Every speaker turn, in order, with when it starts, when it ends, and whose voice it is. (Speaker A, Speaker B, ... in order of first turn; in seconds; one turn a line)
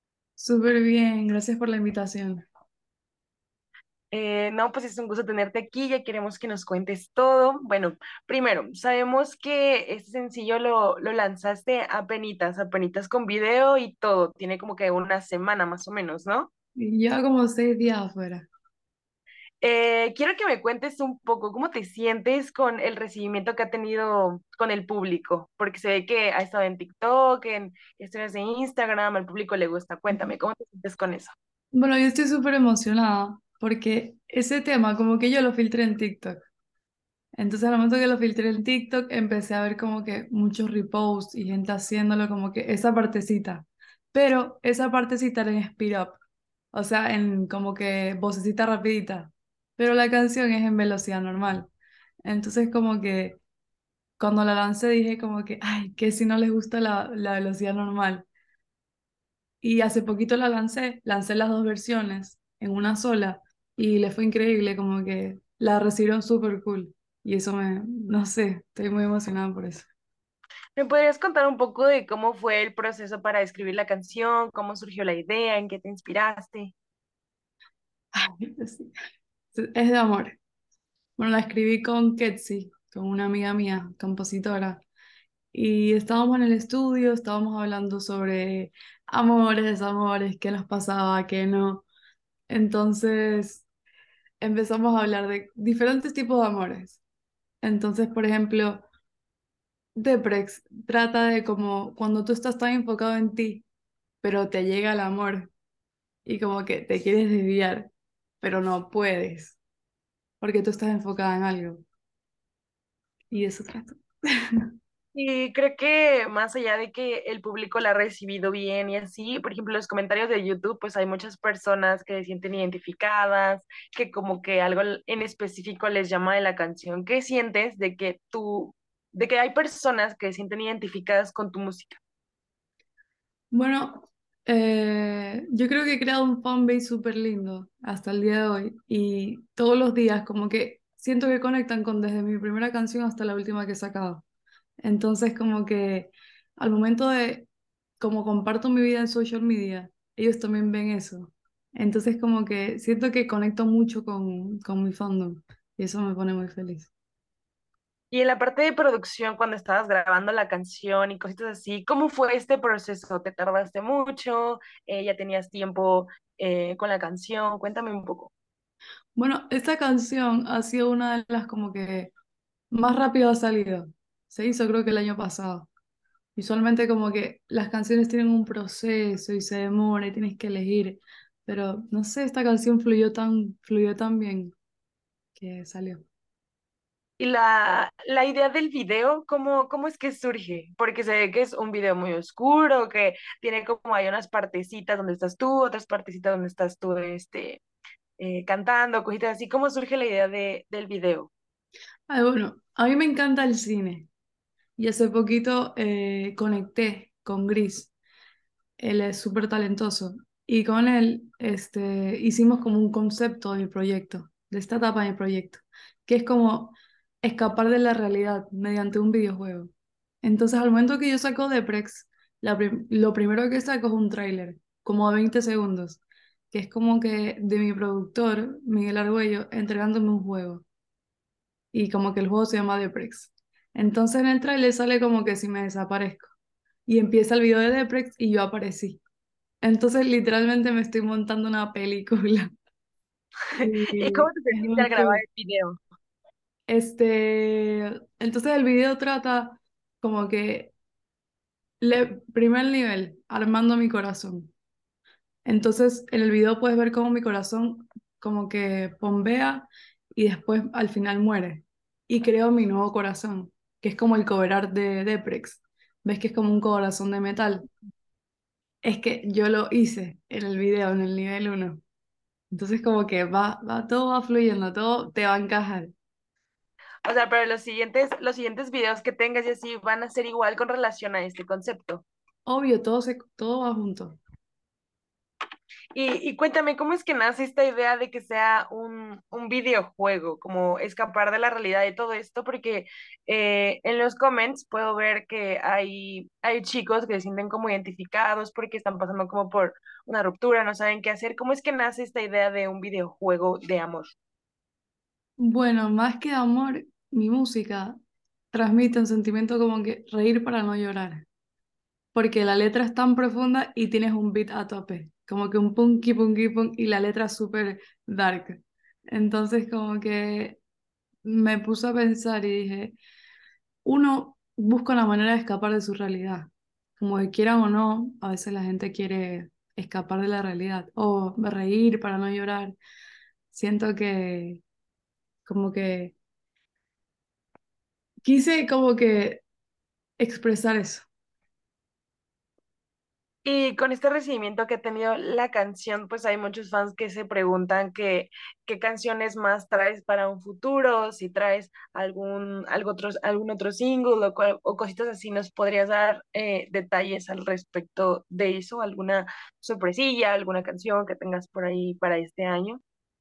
Speaker A: 0.4-2.5
Speaker B: 4.1-16.5
Speaker A: 16.8-18.5
Speaker B: 19.6-31.3
Speaker A: 31.7-36.4
Speaker A: 37.3-46.2
Speaker A: 46.7-51.7
Speaker A: 52.3-53.4
Speaker A: 54.2-58.3
Speaker A: 59.6-69.9
Speaker B: 70.8-76.7
Speaker A: 78.2-78.9
Speaker A: 79.5-80.4
Speaker A: 81.2-84.8
Speaker A: 85.5-91.8
Speaker A: 92.5-93.7
Speaker A: 94.4-97.0
Speaker A: 97.6-98.9
Speaker A: 100.0-103.7
Speaker A: 104.2-105.5
Speaker A: 106.2-107.9
Speaker A: 108.4-109.6
Speaker A: 110.4-111.8
Speaker A: 113.3-114.0
Speaker B: 115.1-132.0
Speaker A: 133.5-144.2
Speaker A: 144.8-147.5
Speaker A: 148.0-156.9
Speaker B: 158.1-168.3
Speaker A: 169.2-172.1
Speaker A: 172.7-175.7
Speaker A: 176.4-184.5
Speaker A: 185.4-186.1
Speaker B: 187.2-197.6
Speaker B: 198.2-201.3
Speaker A: 202.1-204.1
Speaker A: 204.8-207.9
Speaker A: 208.8-230.7
Speaker A: 231.7-236.3
Speaker A: 236.9-239.0
Speaker A: 239.6-242.5
Speaker A: 243.6-245.2
Speaker B: 243.6-245.8
Speaker A: 246.7-250.7
Speaker A: 251.8-254.5
Speaker A: 255.4-267.7
Speaker A: 268.8-271.8
Speaker A: 272.5-275.9
Speaker B: 277.1-282.1
Speaker A: 282.5-284.2
Speaker B: 285.9-304.1
Speaker A: 305.4-308.0
Speaker A: 308.5-311.3
Speaker A: 312.1-320.6
Speaker A: 321.2-323.0
Speaker A: 323.9-332.8
Speaker A: 333.5-334.6
Speaker A: 335.5-336.1
Speaker A: 338.2-339.4
Speaker A: 340.2-341.1
Speaker B: 343.4-362.8